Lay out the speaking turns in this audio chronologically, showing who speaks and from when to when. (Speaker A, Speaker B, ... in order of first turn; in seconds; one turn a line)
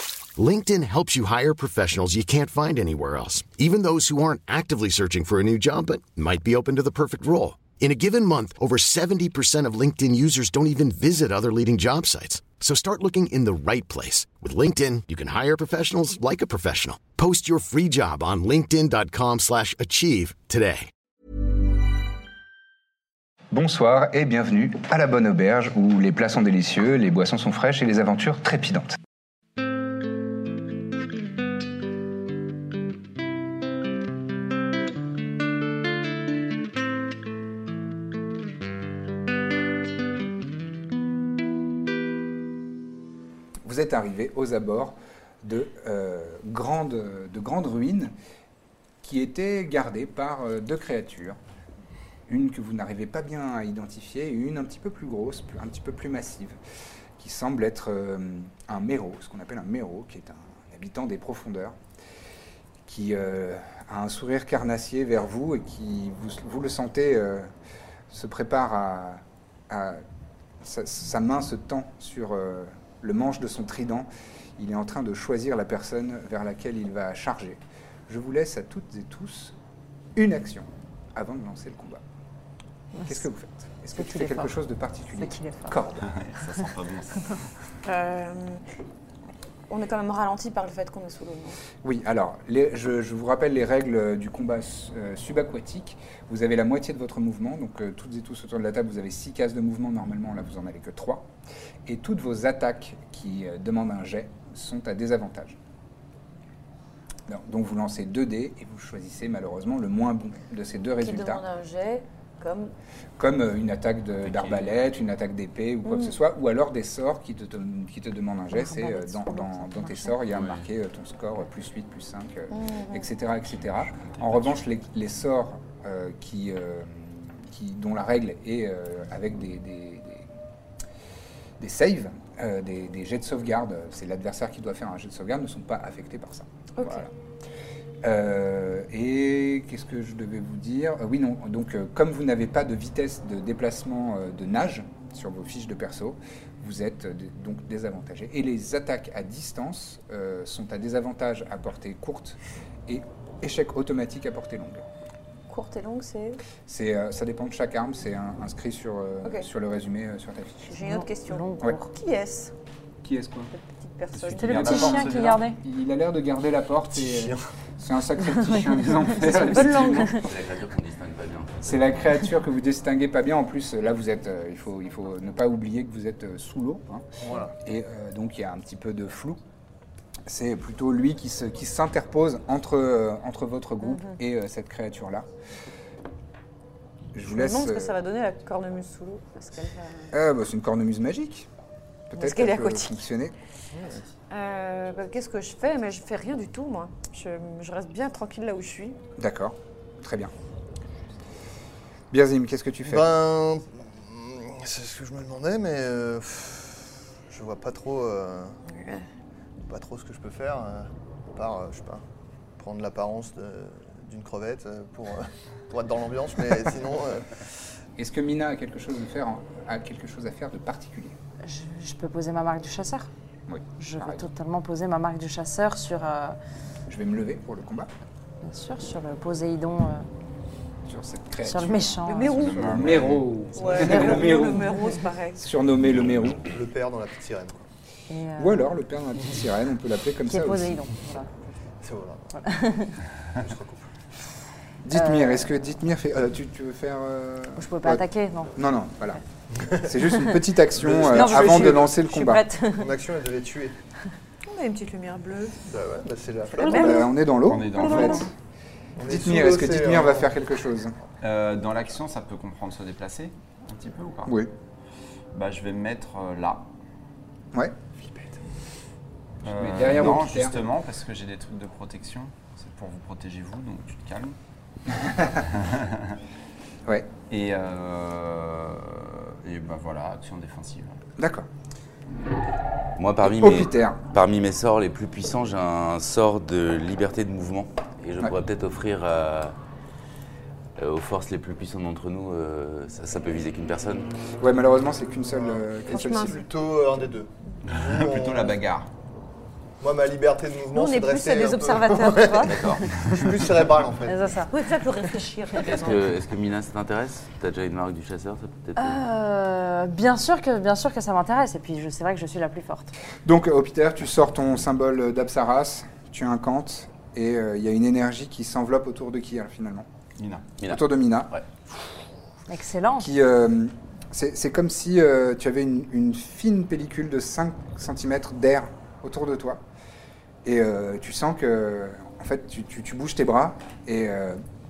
Speaker A: 0.4-20.9
Speaker B: 23.5-29.0
Speaker B: 43.6-48.1
Speaker B: 49.0-51.4
Speaker B: 52.3-56.6
Speaker B: 57.2-61.8
Speaker B: 62.9-67.5
Speaker B: 68.1-70.0
Speaker B: 70.6-79.6
Speaker B: 80.2-82.0
Speaker C: 82.9-83.3
Speaker B: 83.1-86.1
Speaker C: 83.9-84.6
Speaker C: 85.2-85.8
Speaker D: 86.0-87.5
Speaker E: 87.8-88.6
Speaker E: 89.7-91.6
Speaker B: 91.8-101.3
Speaker B: 101.9-105.6
Speaker B: 107.3-111.4
Speaker E: 111.0-112.7
Speaker B: 113.2-130.3
Speaker D: 114.2-114.7
Speaker E: 115.8-116.2
Speaker C: 118.5-120.2
Speaker D: 120.3-120.6
Speaker E: 122.5-123.1
Speaker D: 123.8-124.6
Speaker B: 131.6-137.1
Speaker E: 136.8-137.1
Speaker B: 138.0-154.9
Speaker E: 155.5-156.4
Speaker B: 156.7-160.8
Speaker E: 160.7-162.5
Speaker C: 160.9-161.9
Speaker B: 163.0-163.5
Speaker E: 163.5-165.2
Speaker D: 164.1-165.4
Speaker C: 164.4-165.6
Speaker B: 164.7-170.2
Speaker F: 166.9-167.4
Speaker C: 168.2-169.6
Speaker E: 169.2-170.3
Speaker G: 169.9-172.0
Speaker B: 171.6-177.1
Speaker F: 177.2-177.5
Speaker B: 177.6-179.4
Speaker B: 180.3-185.3
Speaker B: 187.1-188.0
Speaker E: 187.2-190.1
Speaker B: 190.1-191.5
Speaker B: 192.1-193.3
Speaker E: 192.2-193.0
Speaker F: 193.7-194.1
Speaker E: 194.3-199.0
Speaker B: 199.2-200.3
Speaker B: 202.1-203.2
Speaker F: 202.9-208.6
Speaker E: 208.7-209.1
Speaker F: 209.6-212.0
Speaker F: 212.6-217.6
Speaker B: 218.0-221.2
Speaker C: 221.4-223.1
Speaker B: 223.5-224.3
Speaker C: 223.8-226.4
Speaker B: 226.9-227.9
Speaker C: 228.4-230.1
Speaker B: 230.9-234.8
Speaker C: 231.4-232.3
Speaker E: 232.1-232.9
Speaker D: 232.2-234.0
Speaker E: 233.5-235.4
Speaker C: 233.9-234.6
Speaker B: 235.4-236.4
Speaker F: 236.4-237.7
Speaker C: 238.1-238.7
Speaker B: 238.4-240.9
Speaker C: 240.3-241.3
Speaker F: 241.8-242.3
Speaker C: 242.3-243.0
Speaker F: 243.3-243.9
Speaker B: 244.8-249.2
Speaker C: 244.9-245.5
Speaker C: 247.6-248.6
Speaker F: 249.6-249.9
Speaker B: 249.7-252.5
Speaker F: 250.7-251.9
Speaker C: 251.1-252.9
Speaker F: 252.7-253.8
Speaker E: 254.5-255.6
Speaker F: 255.6-256.9
Speaker E: 256.6-257.2
Speaker B: 256.6-258.3
Speaker D: 257.4-258.3
Speaker E: 257.8-258.2
Speaker F: 259.0-260.4
Speaker B: 259.0-261.0
Speaker D: 261.2-264.4
Speaker B: 264.3-264.5
Speaker D: 265.3-266.7
Speaker D: 269.4-274.4
Speaker B: 269.4-270.6
Speaker B: 274.9-275.4
Speaker D: 275.3-276.2
Speaker D: 277.3-281.0
Speaker B: 281.2-281.5
Speaker G: 283.0-289.6
Speaker B: 283.2-284.0
Speaker G: 290.8-294.1
Speaker B: 294.4-296.4
Speaker F: 295.3-298.6
Speaker E: 295.9-296.4
Speaker D: 297.7-298.9
Speaker F: 299.8-304.4
Speaker E: 300.7-302.8
Speaker G: 302.4-302.9
Speaker D: 302.9-303.3
Speaker C: 304.1-304.5
Speaker E: 304.5-306.1
Speaker G: 305.6-309.0
Speaker C: 308.8-312.9
Speaker B: 313.2-319.9
Speaker D: 320.2-320.5
Speaker G: 320.6-321.4
Speaker B: 320.7-321.3
Speaker C: 322.5-323.1
Speaker B: 323.0-329.6
Speaker B: 330.4-334.4